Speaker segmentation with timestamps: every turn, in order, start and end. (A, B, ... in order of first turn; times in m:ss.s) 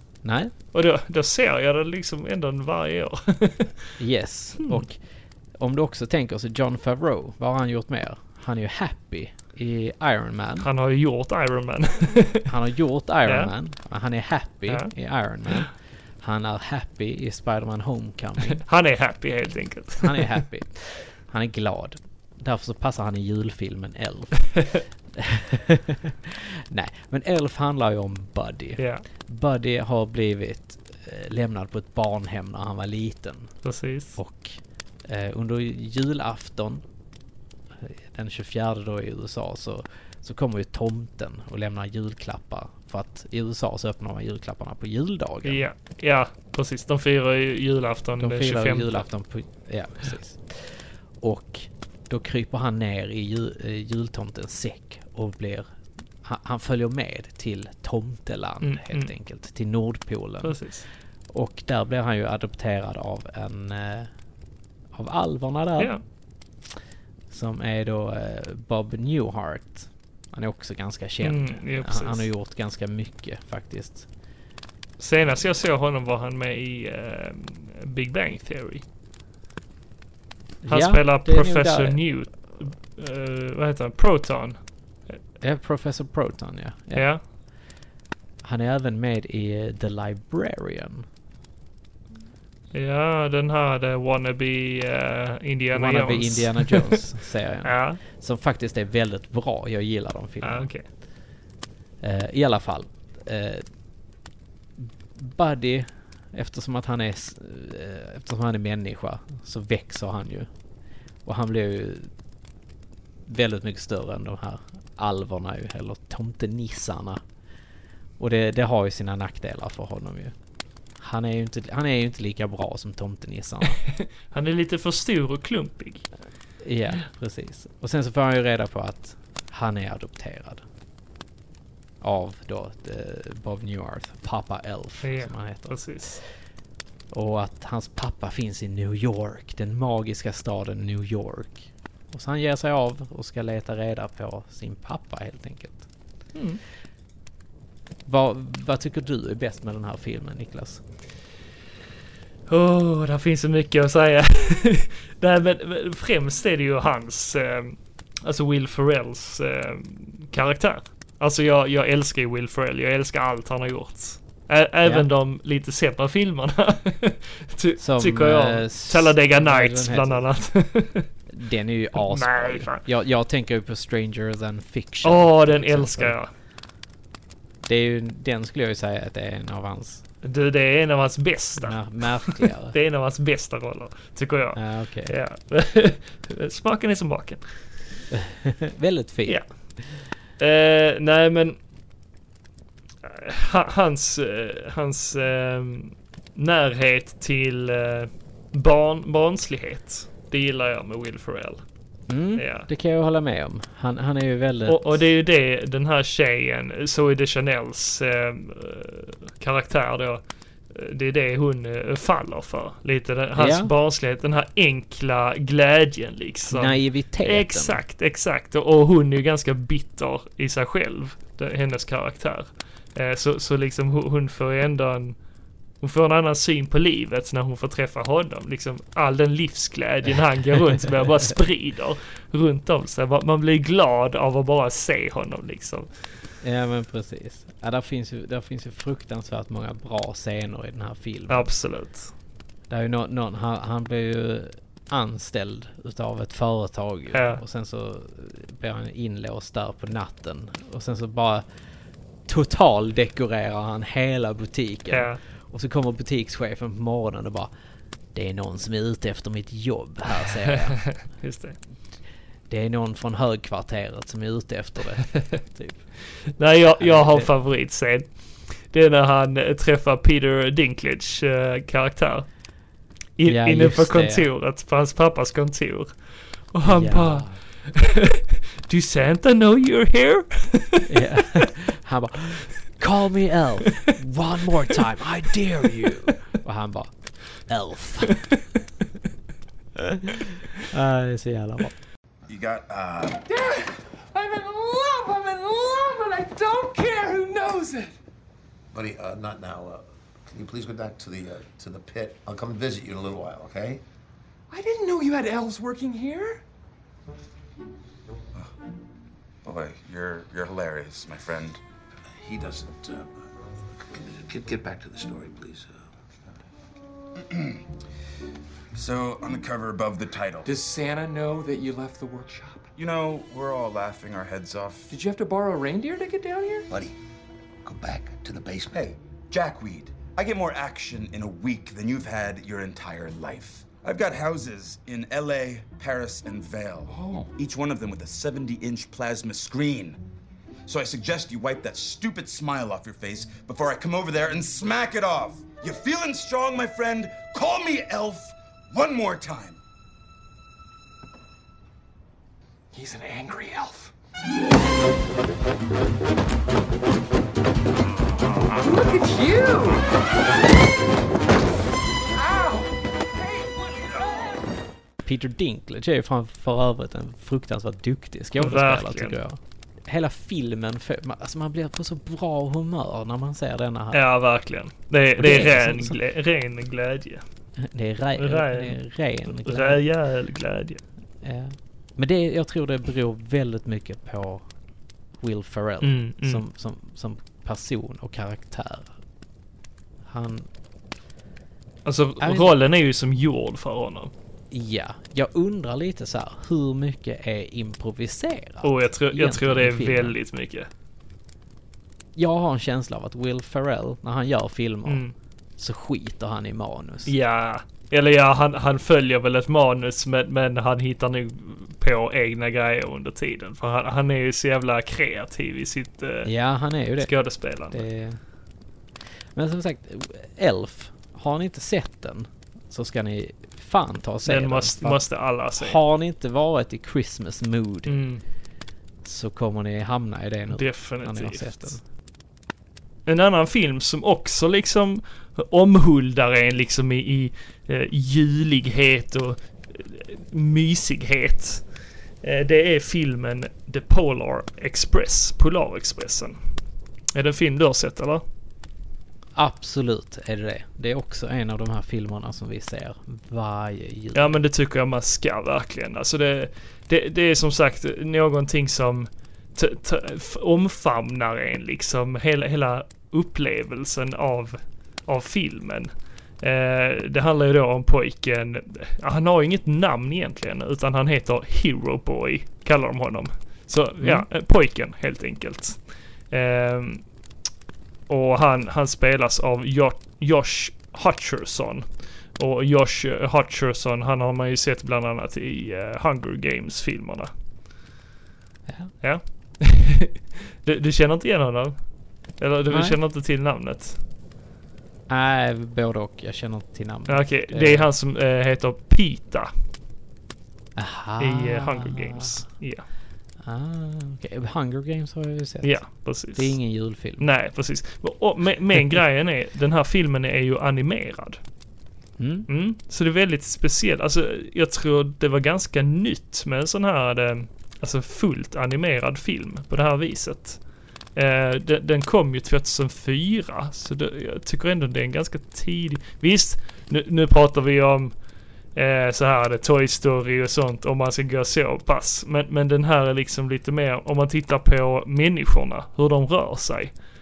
0:00.2-0:00.5 A
0:00.7-0:03.8 B
0:04.0-0:10.7 A
0:10.6-0:12.5 B
0:12.4-0:18.6 A
0:13.2-0:13.5 B
0:14.7-0:15.6 B
0:18.6-0:20.4 B
0:20.0-0:33.6 A
0:28.8-0:29.0 B
0:33.6-0:34.2 B
0:34.1-0:36.8 A
0:37.8-0:45.6 A
0:45.4-0:49.0 B
0:48.2-1:04.1 A
0:58.6-0:59.1 B
1:00.4-1:00.8 B
1:04.9-1:06.0 A
1:07.3-1:14.1 A
1:11.2-1:12.3 B
1:15.0-1:18.8 B
1:20.6-1:22.0 A
1:20.7-1:25.2 B
1:25.4-1:27.3 A
1:26.9-1:27.2 B
1:28.4-1:31.1 A
1:32.7-1:37.1 B
1:35.7-1:40.7 A
1:37.6-1:38.0 B
1:40.4-1:40.9 B
1:42.0-1:43.6 A
1:44.8-1:50.5 A
1:51.2-1:52.1 A
1:53.2-1:57.2 A
1:58.2-2:00.3 A
2:01.0-2:03.8 A
2:03.9-2:06.1 B
2:06.6-2:10.6 A
2:12.0-2:16.3 A
2:15.0-2:16.2 B
2:17.1-2:25.8 A
2:26.3-2:26.6 B
2:28.0-2:30.8 A
2:32.5-2:51.1 B
2:44.8-2:45.1 A
2:47.8-2:50.3 A
2:51.3-2:56.2 A
2:52.0-2:52.8 B
2:55.0-2:56.3 B
2:57.6-3:00.0 A
3:00.2-3:07.7 B
3:01.6-3:02.8 A
3:04.6-3:05.1 A
3:08.1-3:09.4 A
3:10.4-3:11.6 B
3:13.0-3:21.6 B
3:22.1-3:25.1 A
3:22.4-3:22.7 B
3:24.6-3:45.2 B
3:33.4-3:33.7 A
3:36.5-3:37.8 A
3:45.8-3:55.9 B
3:56.4-4:01.5 A
4:01.3-4:02.1 B
4:02.7-4:11.4 A
4:07.1-4:07.4 B
4:12.2-4:17.5 A
4:14.9-4:15.2 B
4:18.1-4:21.1 A
4:20.8-4:21.6 B
4:22.5-4:25.9 A
4:26.4-4:32.3 B
4:26.8-4:27.3 A
4:33.2-4:41.4 B
4:33.2-4:34.3 A
4:36.6-4:37.4 A
4:40.9-4:48.3 A
4:49.9-4:51.8 A
4:52.3-4:53.2 C
4:53.2-4:58.0 D
4:58.7-5:03.8 E
5:04.5-5:06.4 D
5:09.4-5:11.6 C
5:12.2-5:13.2 E
5:13.8-5:15.8 E
5:17.2-5:17.6 C
5:18.7-5:20.5 C
5:20.4-5:22.7 D
5:22.8-5:24.9 C
5:24.9-5:26.7 D
5:26.7-5:26.9 E
5:27.6-5:29.0 E
5:29.3-5:40.0 C
5:36.9-5:37.3 D
5:40.7-5:49.6 C
5:52.7-5:53.9 D
5:58.6-5:59.9 D
6:02.1-6:02.7 D
6:03.4-6:04.0 D
6:05.0-6:14.0 A
6:08.4-6:09.2 B
6:13.9-6:17.2 B
6:15.2-6:16.0 A
6:17.6-6:19.8 A
6:18.2-6:20.8 B
6:21.2-6:24.5 A
6:25.2-6:29.0 A
6:25.8-6:26.4 B
6:30.0-6:30.5 A
6:31.8-6:34.1 B
6:32.2-6:32.5 A
6:34.5-6:40.2 A
6:38.6-6:40.7 B
6:42.2-6:45.0 A
6:44.8-6:45.1 B
6:45.6-6:47.1 A
6:47.0-6:56.3 B
6:56.2-6:58.2 A
6:57.0-6:57.8 B
6:59.3-7:08.0 A
7:04.2-7:05.8 B
7:07.8-7:08.2 B
7:09.0-7:11.8 A
7:10.5-7:11.8 B
7:13.0-7:21.7 B
7:22.2-7:26.4 B
7:27.1-7:28.2 B
7:29.4-7:34.4 A
7:34.1-7:57.1 B
7:54.0-7:54.3 A
7:58.1-8:07.3 B
8:08.7-8:08.9 A
8:09.0-8:10.1 B
8:10.6-8:14.0 B
8:12.7-8:13.0 A
8:15.1-8:17.9 A
8:17.1-8:19.5 B
8:20.7-8:22.4 A
8:21.2-8:22.9 B
8:23.4-8:27.3 A
8:25.6-8:31.4 B
8:32.2-8:32.5 A
8:32.5-8:48.2 B
8:48.7-8:56.9 B